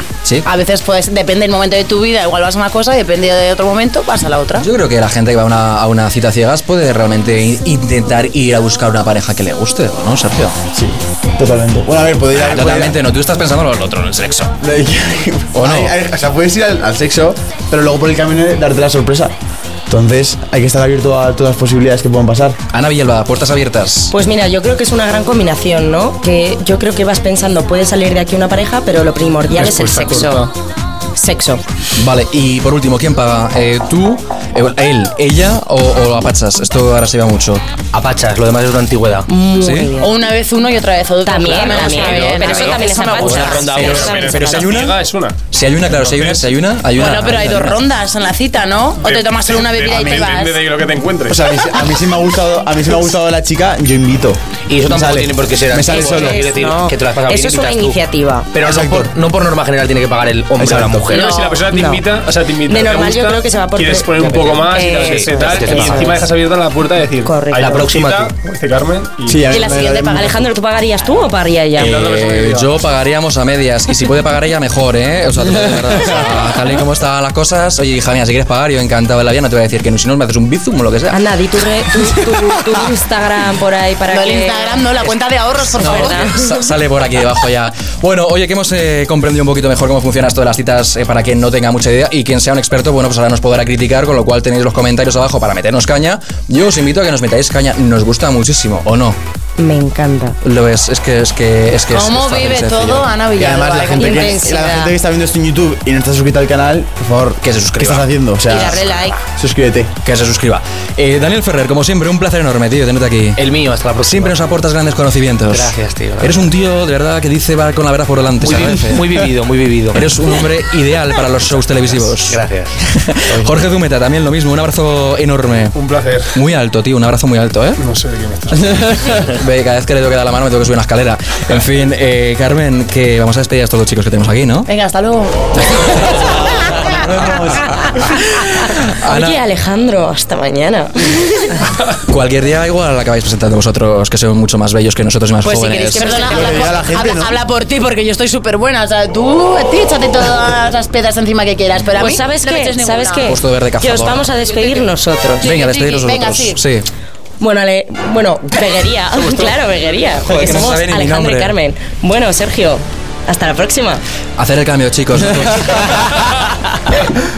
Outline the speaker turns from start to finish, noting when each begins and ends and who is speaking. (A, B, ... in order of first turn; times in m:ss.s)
0:00.4-0:04.7 A
0:04.6-0:10.5 B
0:10.7-0:13.0 C
0:12.3-0:14.5 B
0:14.6-0:19.3 C
0:15.5-0:15.9 B
0:19.9-0:22.6 C
0:22.7-0:24.1 B
0:24.1-0:30.5 D
0:29.5-0:30.5 E
0:31.2-0:31.6 D
0:32.0-0:37.6 B
0:37.9-0:39.3 F
0:39.3-0:40.1 D
0:39.6-0:39.9 B
0:40.0-0:44.3 A
0:41.2-0:44.7 D
0:41.7-0:44.2 F
0:43.7-0:45.4 E
0:44.1-0:47.8 B
0:45.9-0:46.5 E
0:46.9-0:50.6 A
0:49.0-0:51.6 E
0:49.9-0:50.3 C
0:51.3-0:56.5 C
0:54.7-0:58.0 F
0:55.9-0:58.5 D
0:58.5-1:01.3 F
0:58.6-0:59.1 C
1:00.6-1:01.1 C
1:01.1-1:09.6 E
1:01.1-1:01.6 A
1:01.7-1:02.0 D
1:02.6-1:06.2 D
1:04.2-1:06.1 F
1:07.2-1:07.6 D
1:07.6-1:08.3 F
1:09.2-1:10.4 C
1:09.5-1:10.5 A
1:10.1-1:12.0 D
1:11.8-1:21.2 B
1:11.8-1:12.7 E
1:21.1-1:24.9 D
1:24.1-1:26.5 A
1:25.7-1:39.2 B
1:25.8-1:26.5 D
1:39.6-1:40.4 D
1:40.4-1:43.1 B
1:41.9-1:44.8 A
1:43.4-1:49.9 C
1:43.9-1:44.9 D
1:47.4-1:48.1 B
1:48.5-1:49.2 D
1:50.0-1:53.4 B
1:53.4-1:54.4 F
1:54.0-1:59.3 B
1:55.5-1:56.5 F
1:58.4-2:00.1 F
1:59.9-2:05.8 B
2:02.0-2:02.8 F
2:03.3-2:03.5 F
2:05.7-2:06.3 E
2:06.3-2:07.8 B
2:07.8-2:09.0 E
2:08.6-2:14.7 B
2:14.7-2:16.9 A
2:15.8-2:16.4 B
2:16.9-2:19.4 B
2:19.0-2:21.6 D
2:22.1-2:26.2 B
2:25.4-2:26.8 D
2:25.9-2:33.4 A
2:26.2-2:27.4 C
2:31.9-2:35.5 D
2:33.2-2:34.3 B
2:34.5-2:34.8 A
2:35.4-2:36.6 A
2:35.4-2:36.9 B
2:37.4-2:44.0 D
2:40.2-2:41.5 B
2:44.4-2:47.1 B